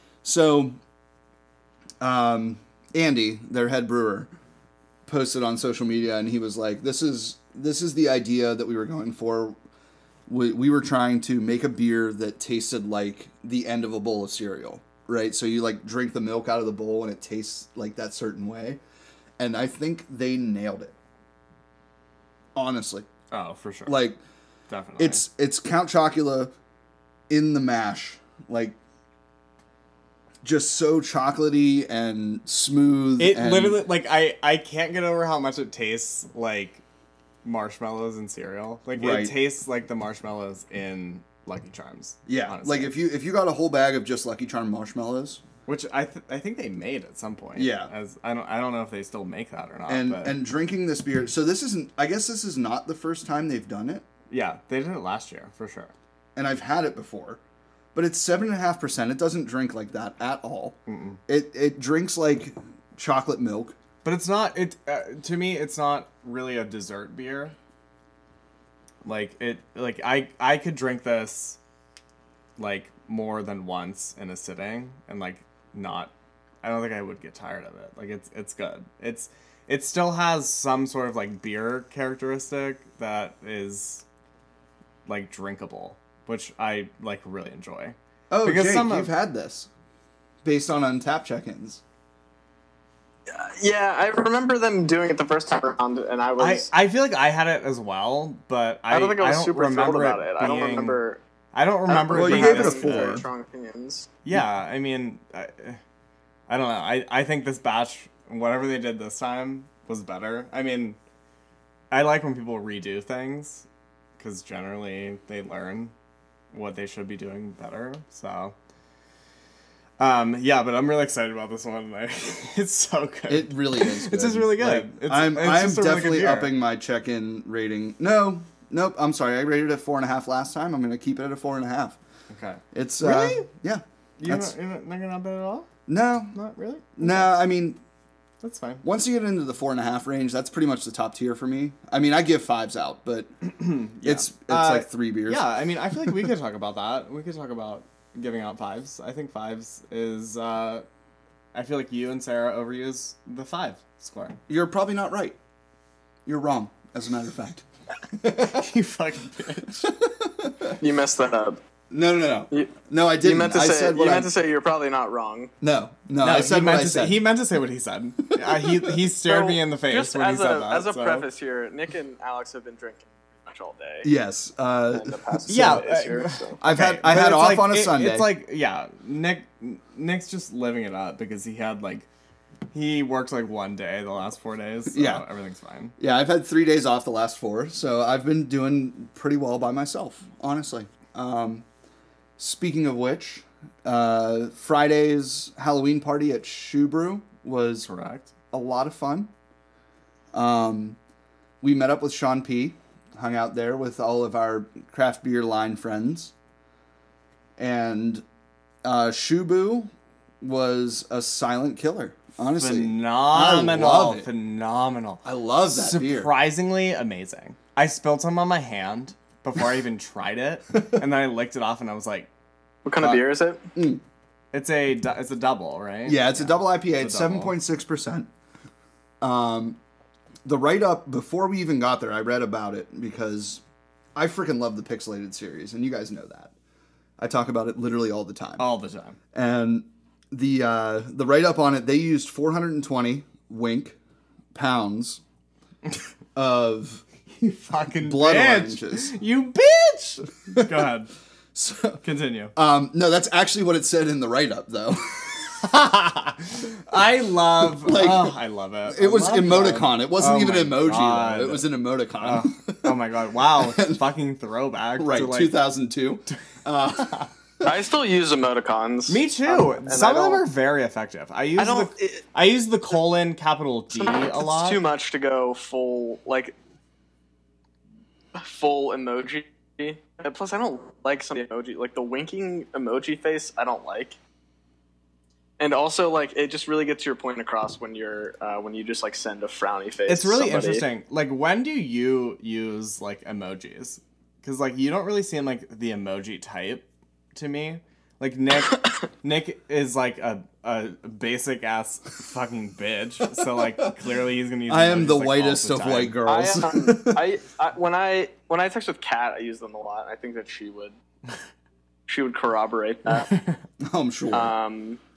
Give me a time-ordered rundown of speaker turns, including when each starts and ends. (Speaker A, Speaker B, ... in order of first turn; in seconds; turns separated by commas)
Speaker A: 0.2-0.8, Speaker A: 2.0-4.3, Speaker A: 5.1-9.6, Speaker A: 10.3-18.8, Speaker A: 19.4-20.9, Speaker A: 22.6-23.1, Speaker B: 23.3-24.0, Speaker A: 23.9-24.2, Speaker B: 24.7-25.2, Speaker A: 25.0-26.5, Speaker A: 27.3-28.8, Speaker A: 30.4-33.8, Speaker B: 33.2-36.8, Speaker B: 37.4-42.9, Speaker A: 39.0-39.3, Speaker A: 42.3-45.4, Speaker B: 45.7-50.4, Speaker A: 47.5-47.9, Speaker A: 49.9-54.1, Speaker B: 54.3-55.9, Speaker A: 56.4-57.4, Speaker A: 58.0-60.8, Speaker B: 60.9-61.2, Speaker A: 61.3-63.8, Speaker B: 64.0-67.5, Speaker B: 69.0-71.6, Speaker B: 72.6-76.1, Speaker B: 76.6-84.0, Speaker B: 85.1-89.1, Speaker A: 88.3-89.7, Speaker A: 90.4-91.8, Speaker C: 93.3-96.7, Speaker B: 96.4-101.0, Speaker C: 98.9-101.2, Speaker B: 101.5-103.2, Speaker C: 101.9-104.1, Speaker A: 102.1-103.3, Speaker B: 104.2-105.8, Speaker B: 106.5-111.0, Speaker B: 111.9-113.7, Speaker B: 114.2-115.9, Speaker B: 116.5-118.5, Speaker B: 120.0-126.5, Speaker A: 123.3-132.0, Speaker B: 132.3-133.5, Speaker A: 132.7-134.5, Speaker B: 134.2-135.7, Speaker A: 135.9-136.4, Speaker B: 136.3-137.3, Speaker A: 137.0-137.8, Speaker B: 138.4-138.8, Speaker A: 138.8-143.3, Speaker B: 143.5-150.8, Speaker A: 144.0-145.4, Speaker B: 151.5-154.4, Speaker A: 154.5-155.3, Speaker A: 156.3-158.7, Speaker B: 158.4-159.9, Speaker A: 159.7-160.8, Speaker C: 160.8-161.6, Speaker A: 161.9-164.3, Speaker C: 163.2-165.5, Speaker A: 165.6-167.2, Speaker B: 166.2-171.3, Speaker A: 168.4-169.0, Speaker C: 169.2-174.1, Speaker A: 174.0-175.8, Speaker C: 174.9-176.6, Speaker B: 175.5-182.1, Speaker A: 176.6-178.3, Speaker B: 182.7-185.9, Speaker A: 184.9-185.2, Speaker A: 186.0-191.7, Speaker A: 192.4-197.9, Speaker B: 197.8-198.3, Speaker A: 198.5-199.3, Speaker A: 200.3-201.0, Speaker A: 201.6-206.3, Speaker A: 207.6-208.2, Speaker A: 208.8-209.9, Speaker A: 210.4-214.3, Speaker B: 212.6-222.3, Speaker A: 215.2-216.3, Speaker C: 222.8-223.6, Speaker A: 223.8-224.0, Speaker B: 224.5-227.5, Speaker A: 226.1-228.3, Speaker A: 229.2-229.8, Speaker A: 230.5-233.6, Speaker A: 234.2-236.5, Speaker A: 237.2-238.7, Speaker B: 238.6-239.2, Speaker A: 239.3-244.0, Speaker A: 244.5-245.2, Speaker A: 246.4-247.0, Speaker B: 247.4-251.1, Speaker A: 248.0-249.2, Speaker A: 250.6-250.9, Speaker A: 251.6-252.0, Speaker B: 252.0-252.5, Speaker A: 252.6-255.5, Speaker B: 255.6-261.7, Speaker A: 257.8-258.4, Speaker A: 258.9-263.0, Speaker B: 262.2-265.6, Speaker A: 263.6-264.0, Speaker A: 265.0-267.7, Speaker C: 267.6-270.4, Speaker B: 269.1-274.8, Speaker C: 271.6-272.2, Speaker C: 273.9-276.6, Speaker C: 278.4-284.2, Speaker C: 285.6-290.9, Speaker B: 290.1-306.2, Speaker A: 304.7-307.2, Speaker C: 306.2-310.9, Speaker C: 312.1-313.3, Speaker B: 313.3-313.6, Speaker A: 313.8-314.6, Speaker C: 314.3-315.0